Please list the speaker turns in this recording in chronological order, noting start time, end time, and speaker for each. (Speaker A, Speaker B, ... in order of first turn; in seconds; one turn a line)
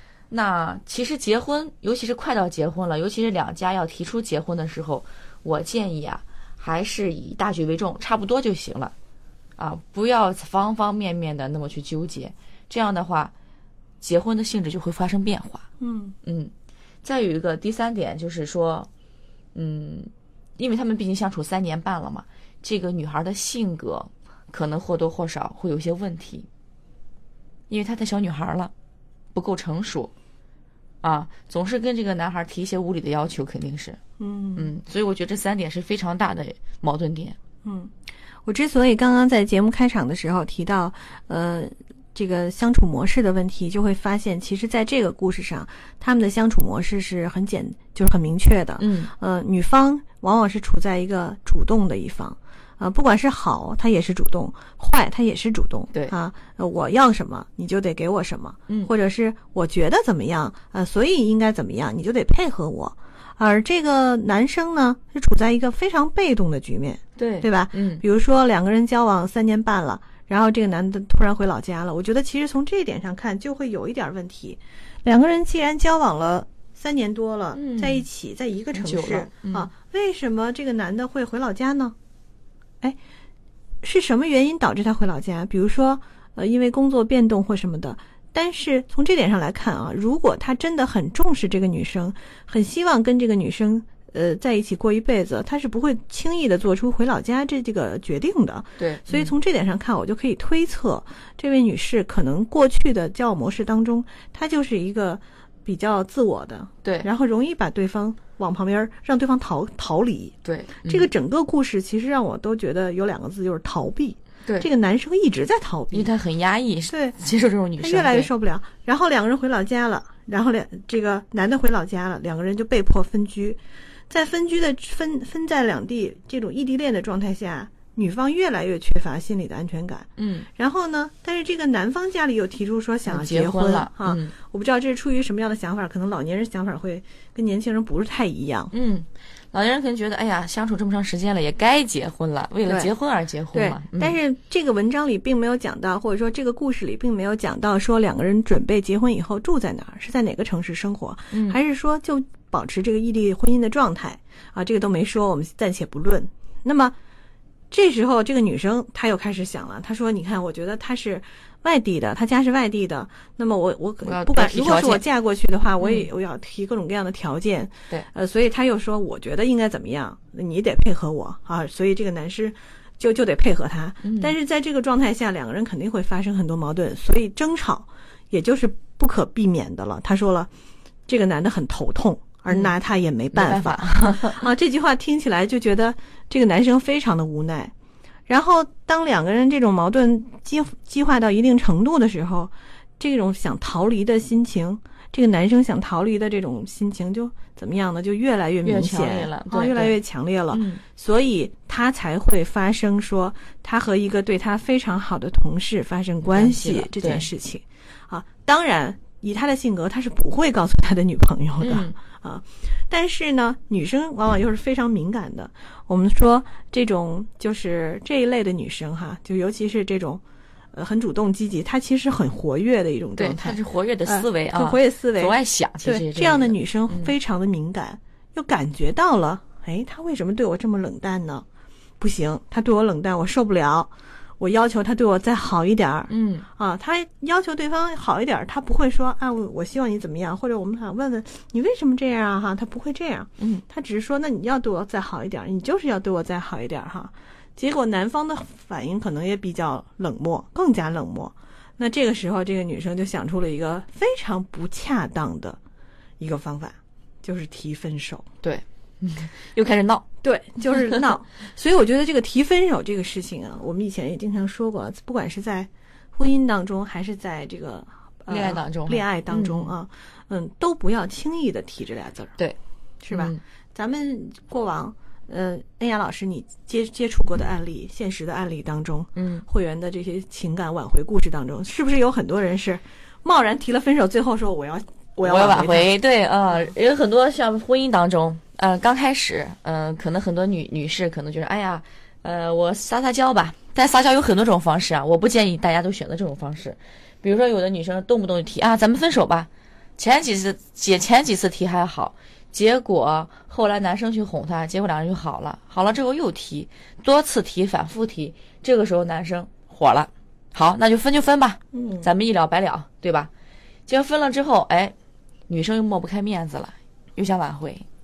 Speaker A: 0.3-8.9
Speaker A: 9.6-13.3
Speaker A: 14.0-15.7
Speaker B: 15.8-16.2
Speaker A: 16.2-16.5
Speaker A: 17.0-18.9
Speaker A: 19.5-26.5
Speaker A: 27.7-28.7
Speaker A: 29.3-30.1
Speaker A: 31.0-34.0
Speaker B: 34.2-34.7
Speaker A: 34.5-37.4
Speaker B: 37.6-37.9
Speaker B: 38.5-82.0
Speaker A: 48.8-49.1
Speaker A: 67.2-68.0
Speaker A: 77.5-78.0
Speaker A: 78.7-79.7
Speaker B: 83.8-116.1
Speaker A: 98.8-99.3
Speaker A: 110.4-111.1
Speaker A: 115.9-118.3
Speaker B: 116.9-117.2
Speaker B: 117.8-123.6
Speaker B: 124.1-138.7
Speaker A: 130.2-130.5
Speaker A: 133.1-134.3
Speaker A: 138.7-144.2
Speaker B: 142.6-142.9
Speaker B: 143.5-156.9
Speaker A: 151.3-151.6
Speaker B: 157.7-180.5
Speaker A: 164.0-165.0
Speaker A: 174.0-174.3
Speaker B: 181.1-187.7
Speaker A: 183.3-184.4
Speaker B: 188.3-220.2
Speaker A: 198.6-200.0
Speaker A: 200.5-200.8
Speaker A: 206.2-207.3
Speaker A: 211.6-211.9
Speaker B: 220.7-231.4
Speaker A: 223.2-227.1
Speaker B: 232.0-255.6
Speaker A: 236.1-236.4
Speaker B: 256.2-258.2
Speaker A: 258.4-260.0
Speaker B: 260.2-272.4
Speaker A: 268.3-269.7
Speaker B: 273.0-285.9
Speaker A: 273.1-273.4
Speaker A: 279.1-279.4
Speaker A: 285.2-313.3
Speaker B: 311.7-312.1
Speaker A: 313.9-314.9
Speaker A: 315.5-317.9